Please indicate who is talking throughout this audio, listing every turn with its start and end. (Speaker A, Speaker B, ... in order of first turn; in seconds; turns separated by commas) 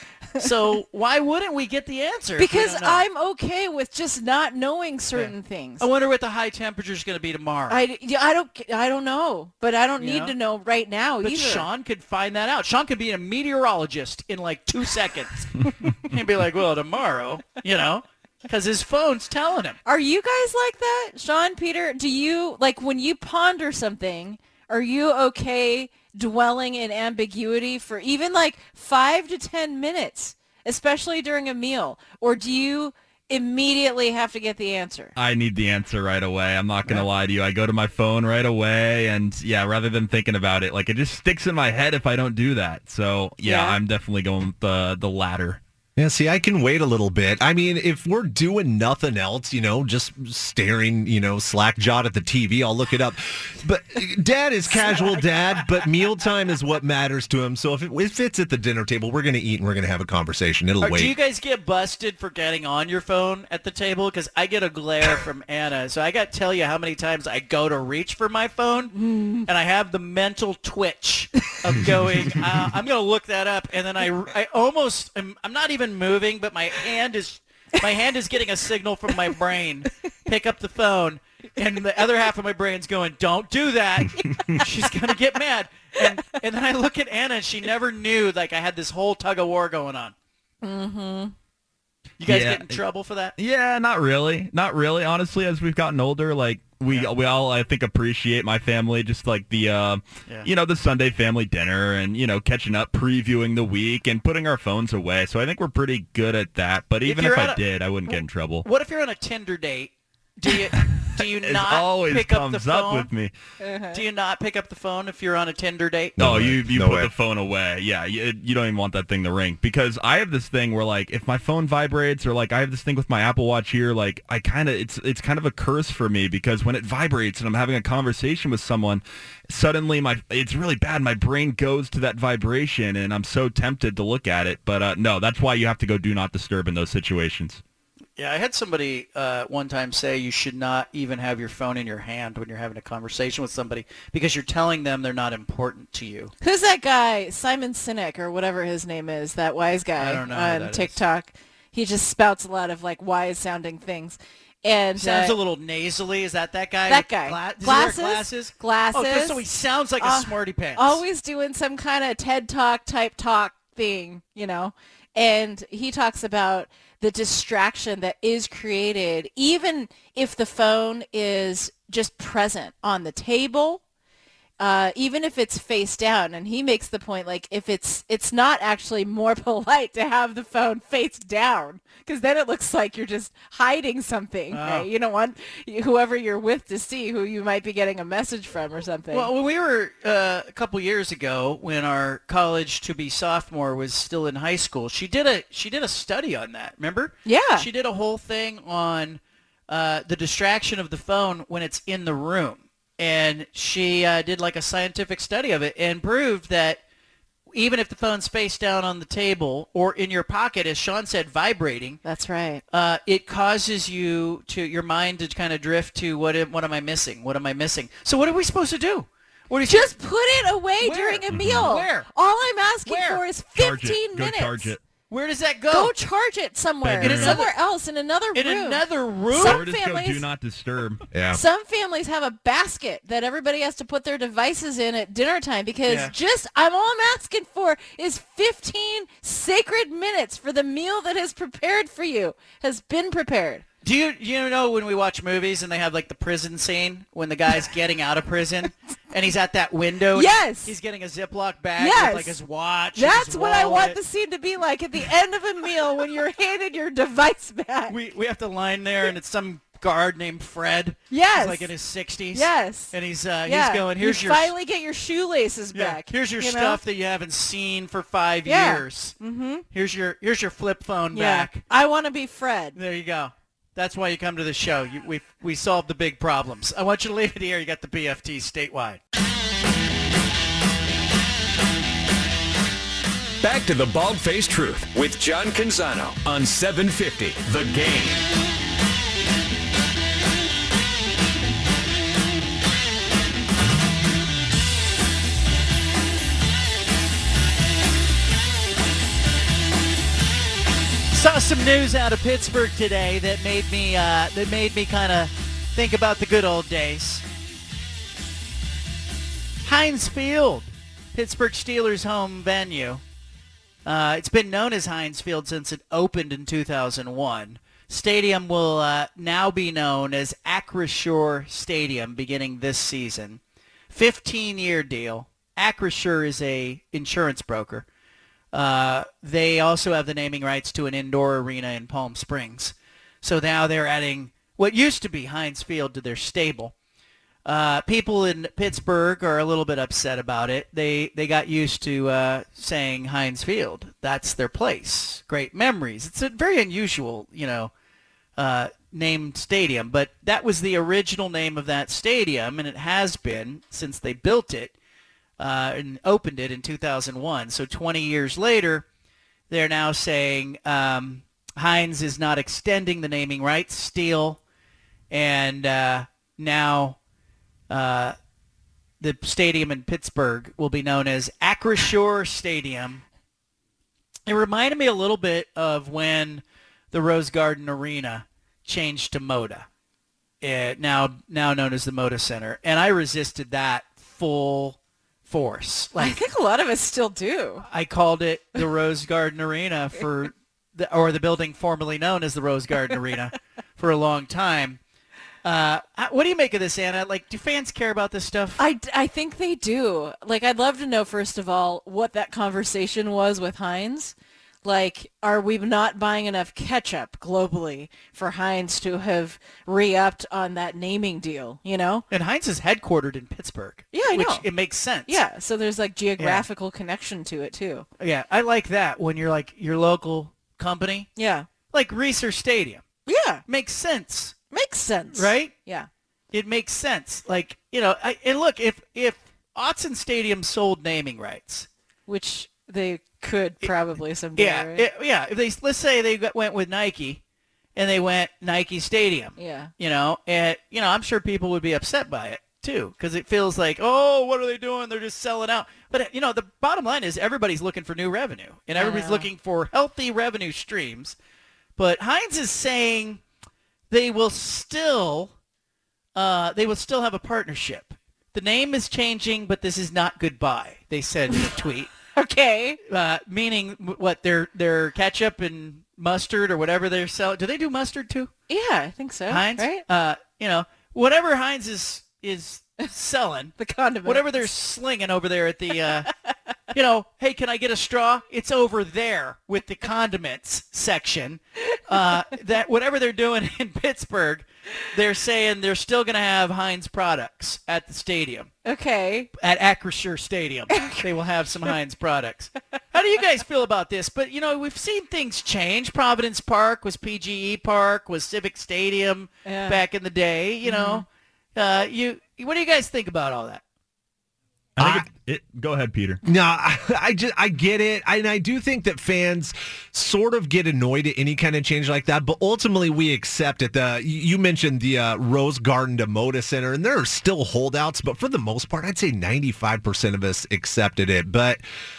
Speaker A: 0.4-0.7, Speaker B: 0.4-3.0, Speaker A: 2.4-5.9, Speaker B: 5.1-7.8, Speaker A: 7.7-11.7, Speaker B: 10.0-10.3, Speaker B: 11.2-15.4, Speaker B: 16.1-19.8, Speaker A: 19.9-35.1, Speaker C: 35.2-45.6, Speaker A: 43.4-43.8, Speaker D: 46.0-61.1, Speaker B: 60.8-68.9, Speaker A: 68.9-69.5, Speaker B: 69.5-90.1, Speaker A: 81.8-82.1, Speaker A: 90.6-91.3, Speaker B: 92.2-93.3, Speaker C: 92.2-92.8, Speaker C: 93.4-108.7, Speaker B: 96.8-97.1, Speaker B: 107.0-113.1, Speaker C: 111.4-113.3, Speaker A: 113.6-114.0, Speaker B: 113.9-116.2, Speaker D: 116.2-117.1, Speaker C: 116.2-137.6, Speaker B: 138.2-146.3, Speaker A: 146.4-155.3, Speaker B: 149.9-151.0, Speaker B: 154.9-161.0, Speaker A: 156.9-159.4, Speaker A: 160.0-173.8, Speaker A: 174.6-189.3, Speaker B: 184.5-184.9, Speaker B: 189.1-206.8, Speaker A: 197.2-197.7, Speaker B: 207.5-212.0, Speaker A: 212.0-212.6, Speaker B: 212.7-219.9, Speaker A: 219.6-224.7, Speaker B: 220.8-222.1, Speaker C: 221.3-221.7, Speaker B: 222.8-223.2, Speaker C: 223.5-224.8, Speaker B: 225.1-225.9, Speaker A: 225.7-230.2, Speaker C: 226.8-227.4, Speaker B: 227.0-227.5, Speaker B: 228.3-229.6, Speaker C: 229.4-231.0, Speaker D: 231.1-231.4, Speaker A: 231.3-243.6, Speaker B: 235.8-236.1, Speaker B: 243.8-254.0, Speaker A: 250.1-250.7, Speaker A: 251.8-252.4, Speaker A: 252.9-257.9, Speaker B: 257.9-264.5, Speaker A: 261.1-261.7, Speaker A: 262.3-262.9, Speaker A: 263.4-266.8, Speaker B: 265.7-269.1, Speaker A: 268.4-269.6, Speaker B: 269.7-271.6, Speaker A: 271.1-272.8, Speaker B: 272.7-279.0, Speaker E: 283.4-288.3, Speaker B: 301.1-307.2, Speaker B: 309.6-313.0, Speaker B: 313.8-327.9, Speaker B: 328.5-336.7, Speaker B: 337.4-347.7, Speaker B: 348.4-354.7, Speaker B: 355.4-358.8, Speaker B: 359.5-364.4, Speaker B: 365.1-367.0, Speaker B: 367.7-368.1, Speaker B: 369.0-373.0, Speaker B: 374.3-379.7, Speaker B: 380.4-386.2, Speaker A: 386.0-387.6, Speaker B: 387.6-394.8, Speaker B: 395.4-398.6, Speaker A: 398.6-412.0, Speaker B: 412.1-415.2, Speaker A: 413.9-414.4, Speaker A: 415.1-417.9, Speaker B: 416.2-416.4, Speaker B: 418.0-421.1, Speaker A: 421.1-421.5, Speaker B: 421.7-422.8, Speaker A: 423.1-423.4, Speaker B: 423.5-424.4, Speaker A: 424.5-425.9, Speaker B: 425.1-425.5, Speaker B: 426.3-431.7, Speaker A: 432.1-434.9, Speaker B: 434.3-437.2, Speaker B: 437.8-451.2, Speaker A: 439.4-439.7, Speaker A: 448.8-449.3, Speaker B: 451.8-453.2, Speaker B: 453.9-455.3, Speaker B: 456.1-461.9, Speaker A: 462.1-462.8, Speaker B: 462.9-468.3, Speaker A: 468.5-469.8, Speaker B: 469.3-476.1, Speaker A: 473.6-474.5, Speaker B: 476.7-488.5, Speaker A: 481.9-482.2, Speaker A: 488.6-489.3, Speaker B: 489.4-503.6, Speaker A: 490.7-491.1, Speaker A: 499.4-499.8, Speaker A: 500.6-501.1, Speaker C: 504.8-506.2, Speaker D: 504.8-505.1, Speaker D: 506.2-521.6